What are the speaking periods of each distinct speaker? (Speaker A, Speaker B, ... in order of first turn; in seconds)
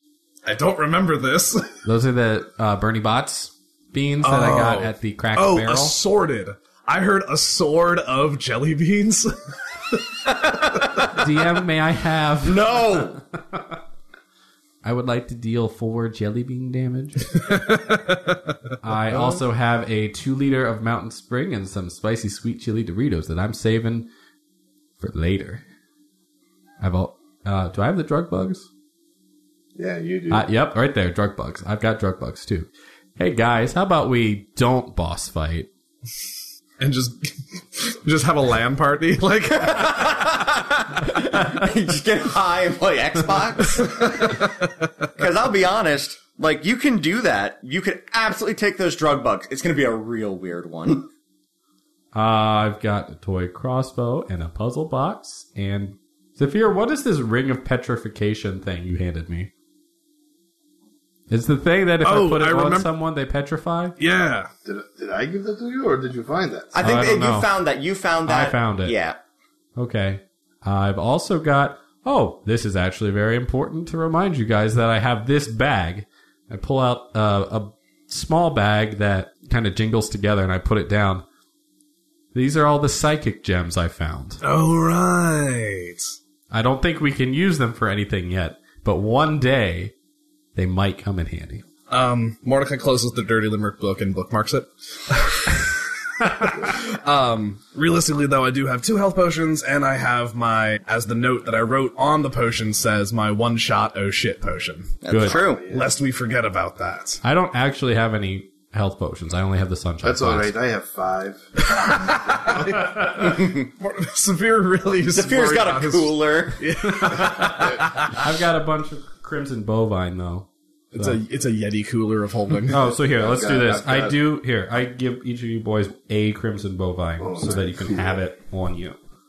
Speaker A: 0.5-1.8, 4.2-10.3, 17.3-19.4, 36.8-40.2, 44.0-44.5, 62.0-62.9, 64.0-64.5, 84.4-86.1, 91.9-105.0, 105.7-107.2, 111.7-118.3, 120.9-122.8
Speaker B: 1.9-6.0, 11.1-13.8, 14.8-17.4, 18.8-24.1, 25.0-25.6, 26.8-28.7, 30.3-35.7, 52.1-59.5, 61.3-64.0, 66.8-67.5, 68.3-69.0, 69.8-81.2, 82.3-84.4, 86.5-89.9, 90.5-91.6, 105.1-105.4, 107.2-110.5, 117.0-121.2, 122.7-129.0
Speaker C: 10.6-11.2, 12.4-13.2, 39.6-44.4, 45.1-51.1, 66.7-69.2, 105.0-105.7, 113.2-113.7, 115.1-116.7
Speaker D: 29.8-30.5, 64.7-66.8, 105.2-105.9, 110.0-113.0, 122.8-124.2, 127.2-128.1